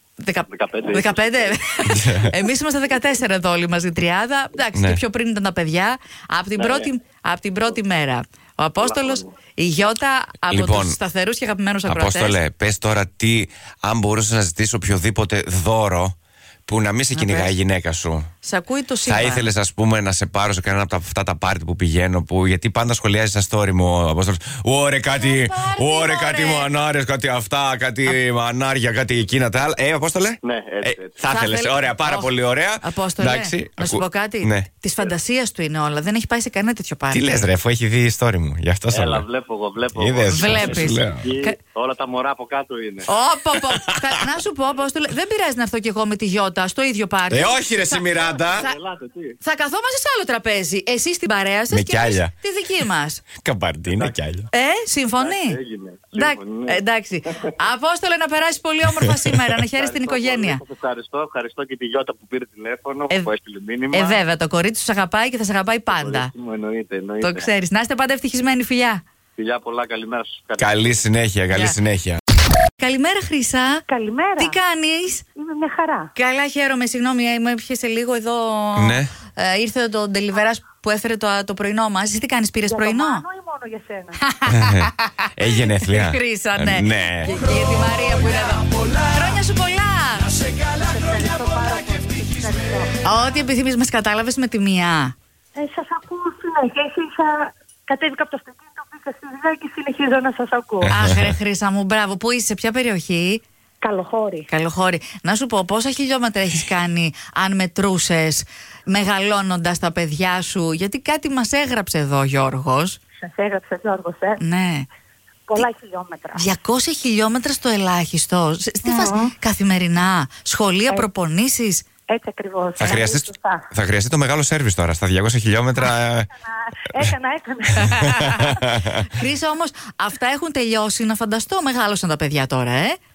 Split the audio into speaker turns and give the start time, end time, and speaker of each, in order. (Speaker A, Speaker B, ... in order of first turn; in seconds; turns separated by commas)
Speaker A: 0.2-12.4, Speaker B: 0.4-1.5, Speaker C: 1.9-2.3, Speaker C: 4.8-5.0, Speaker B: 6.6-6.8, Speaker B: 8.8-9.2, Speaker C: 10.5-11.0, Speaker C: 11.9-16.1, Speaker C: 16.7-18.3, Speaker A: 17.1-17.5, Speaker A: 18.4-19.5, Speaker C: 19.0-34.7, Speaker A: 25.1-26.7, Speaker B: 30.4-31.1, Speaker A: 31.3-32.3, Speaker A: 32.8-37.5, Speaker C: 37.1-39.2, Speaker B: 38.9-43.1, Speaker C: 39.9-41.3, Speaker A: 40.3-41.5, Speaker A: 43.1-48.0, Speaker C: 47.3-48.7, Speaker B: 48.3-49.4, Speaker A: 49.4-53.2, Speaker C: 51.7-52.3, Speaker C: 53.4-54.5, Speaker A: 54.5-55.6, Speaker B: 55.2-56.8, Speaker A: 56.1-60.6, Speaker B: 59.8-64.2, Speaker A: 63.9-66.3, Speaker B: 65.9-67.5, Speaker A: 67.2-69.0, Speaker B: 69.4-71.0, Speaker C: 70.6-72.2, Speaker A: 72.8-73.8, Speaker D: 73.9-74.6, Speaker A: 74.4-75.2, Speaker D: 75.3-76.1, Speaker A: 76.2-83.2, Speaker C: 78.8-79.1, Speaker D: 82.7-84.2, Speaker A: 84.2-85.3, Speaker C: 84.5-87.3, Speaker A: 85.8-90.4, Speaker D: 90.8-93.0, Speaker A: 93.0-95.2, Speaker D: 95.5-100.9, Speaker C: 100.8-101.2, Speaker A: 100.9-103.4, Speaker D: 103.8-104.5, Speaker A: 104.5-113.0, Speaker D: 113.2-114.4, Speaker A: 114.4-114.9, Speaker D: 115.5-116.5, Speaker A: 116.3-121.8, Speaker D: 118.8-119.3, Speaker D: 122.1-123.7, Speaker C: 122.8-126.3, Speaker D: 126.4-128.4, Speaker C: 127.8-128.9, Speaker A: 129.1-133.0